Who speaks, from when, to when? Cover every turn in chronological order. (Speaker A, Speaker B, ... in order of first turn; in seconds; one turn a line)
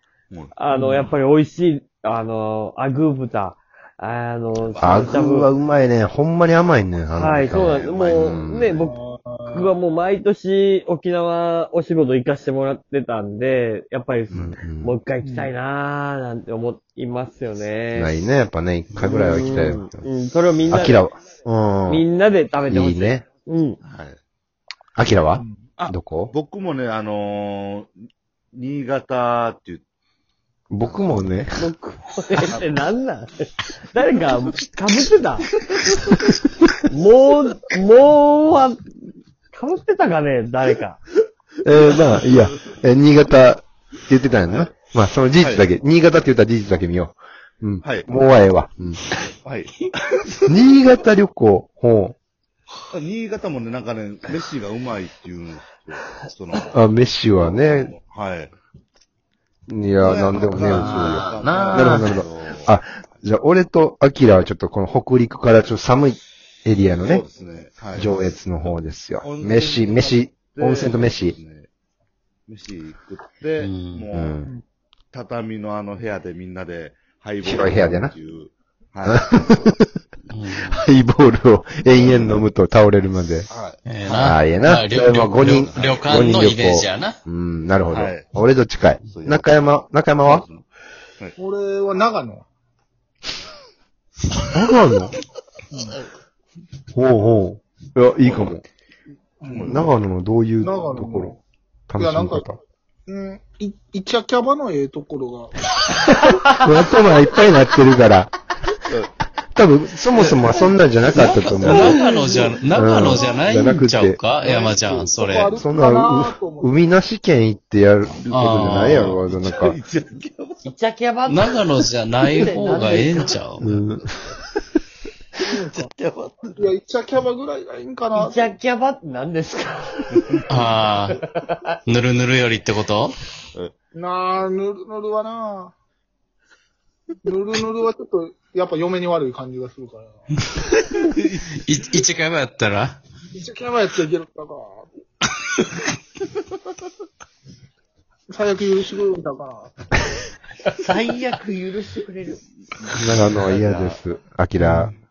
Speaker A: 0.3-0.6
Speaker B: 0.6-5.5
Speaker A: 4.6-5.4
Speaker C: 4.8-8.9
Speaker B: 7.1-8.9
Speaker D: 8.8-9.7
Speaker B: 9.5-18.2
Speaker A: 14.3-14.5
Speaker C: 14.3-15.0
Speaker D: 15.2-15.5
Speaker C: 17.9-20.1
Speaker B: 19.0-21.0
Speaker C: 20.7-22.1
Speaker B: 21.9-23.8
Speaker C: 22.7-23.2
Speaker A: 23.8-24.2
Speaker C: 24.9-26.3
Speaker D: 25.4-25.6
Speaker A: 25.8-29.9
Speaker C: 30.7-31.7
Speaker B: 31.6-35.5
Speaker B: 36.9-38.9
Speaker B: 39.5-41.0
Speaker C: 41.6-49.0
Speaker A: 44.4-44.7
Speaker A: 45.4-45.6
Speaker A: 47.8-48.1
Speaker A: 49.4-49.9
Speaker C: 50.5-52.1
Speaker A: 52.9-56.7
Speaker C: 56.7-57.9
Speaker A: 57.3-58.5
Speaker C: 59.7-67.2
Speaker A: 60.0-62.7
Speaker E: 60.6-62.2
Speaker A: 66.9-68.1
Speaker C: 68.0-71.3
Speaker A: 69.2-71.7
Speaker A: 72.5-74.4
Speaker E: 73.6-74.0
Speaker C: 74.1-74.5
Speaker A: 75.1-79.7
Speaker C: 77.4-78.1
Speaker C: 79.0-79.8
Speaker E: 80.3-80.8
Speaker C: 80.7-83.5
Speaker A: 83.5-84.3
Speaker E: 83.8-87.2
Speaker C: 84.1-90.5
Speaker A: 85.5-86.5
Speaker A: 87.9-88.3
Speaker A: 89.0-89.5
Speaker A: 90.2-90.6
Speaker D: 91.4-92.4
Speaker C: 94.5-95.1
Speaker D: 95.7-96.0
Speaker C: 96.9-98.6
Speaker A: 98.2-98.5
Speaker D: 99.4-99.8
Speaker A: 99.5-99.9
Speaker C: 99.6-101.4
Speaker D: 100.6-101.3
Speaker C: 101.9-102.5
Speaker D: 102.0-102.4
Speaker D: 103.1-105.6
Speaker C: 106.2-108.3
Speaker C: 109.5-112.0
Speaker E: 110.1-115.6
Speaker B: 111.6-112.5
Speaker A: 111.7-112.3
Speaker C: 112.7-114.2
Speaker D: 114.4-116.8
Speaker C: 115.5-119.8
Speaker A: 118.0-120.7
Speaker E: 118.3-119.2
Speaker B: 120.6-121.5
Speaker E: 121.2-123.7
Speaker B: 122.3-123.3
Speaker A: 122.9-123.2
Speaker C: 123.6-124.3
Speaker D: 125.4-125.9
Speaker A: 125.6-126.7
Speaker D: 126.6-128.5
Speaker B: 128.1-130.4
Speaker A: 130.1-131.1
Speaker E: 130.5-131.2
Speaker B: 131.1-131.6
Speaker E: 131.8-133.2
Speaker D: 133.9-135.7
Speaker D: 137.2-140.4
Speaker E: 140.9-143.0
Speaker A: 141.1-141.4
Speaker D: 143.3-144.9
Speaker D: 148.3-149.7
Speaker A: 150.8-154.0
Speaker C: 152.9-154.9